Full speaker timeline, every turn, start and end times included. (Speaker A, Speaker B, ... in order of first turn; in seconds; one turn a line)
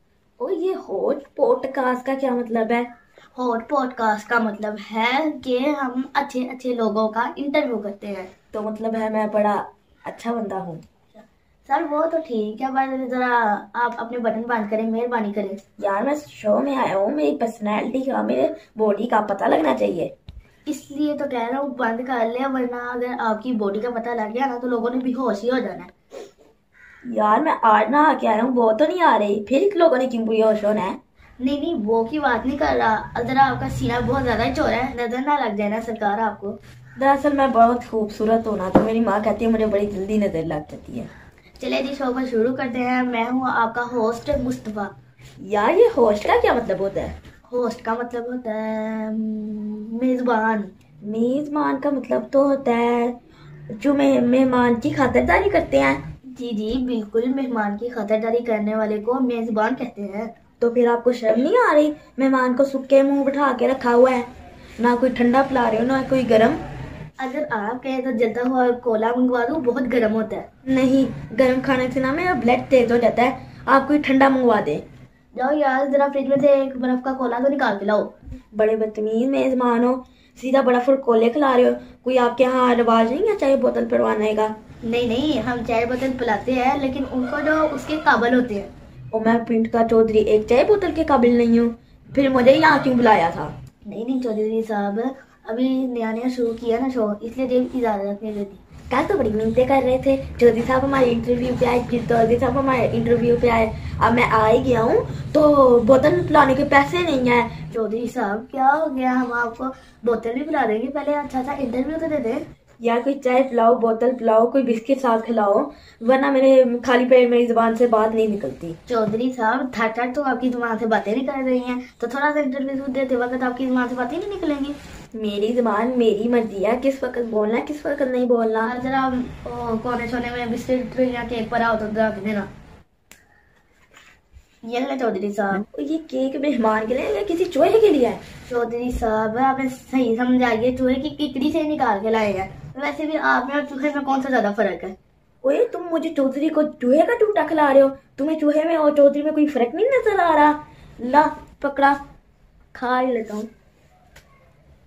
Speaker A: 0.4-2.9
Speaker B: 3.4-8.3
Speaker A: 8.5-10.8
Speaker B: 11.2-15.6
Speaker A: 15.8-20.1
Speaker B: 20.7-25.9
Speaker A: 27.1-31.0
Speaker B: 31.4-36.6
Speaker A: 37.0-41.1
Speaker B: 41.6-44.9
Speaker A: 45.4-47.1
Speaker B: 47.5-50.7
Speaker A: 51.0-53.2
Speaker A: 53.8-56.0
Speaker B: 56.3-60.3
Speaker A: 60.6-66.6
Speaker B: 67.2-70.5
Speaker A: 70.7-74.8
Speaker B: 75.3-78.1
Speaker A: 78.5-84.5
Speaker B: 84.8-88.7
Speaker A: 89.1-93.5
Speaker B: 93.8-98.6
Speaker A: 98.9-107.6
Speaker B: 107.7-112.5
Speaker A: 112.8-118.8
Speaker B: 118.9-124.8
Speaker A: 125.1-128.7
Speaker B: 128.6-132.5
Speaker B: 134.6-135.6
Speaker A: 135.7-138.2
Speaker B: 138.5-145.0
Speaker A: 145.4-152.0
Speaker A: 152.7-153.5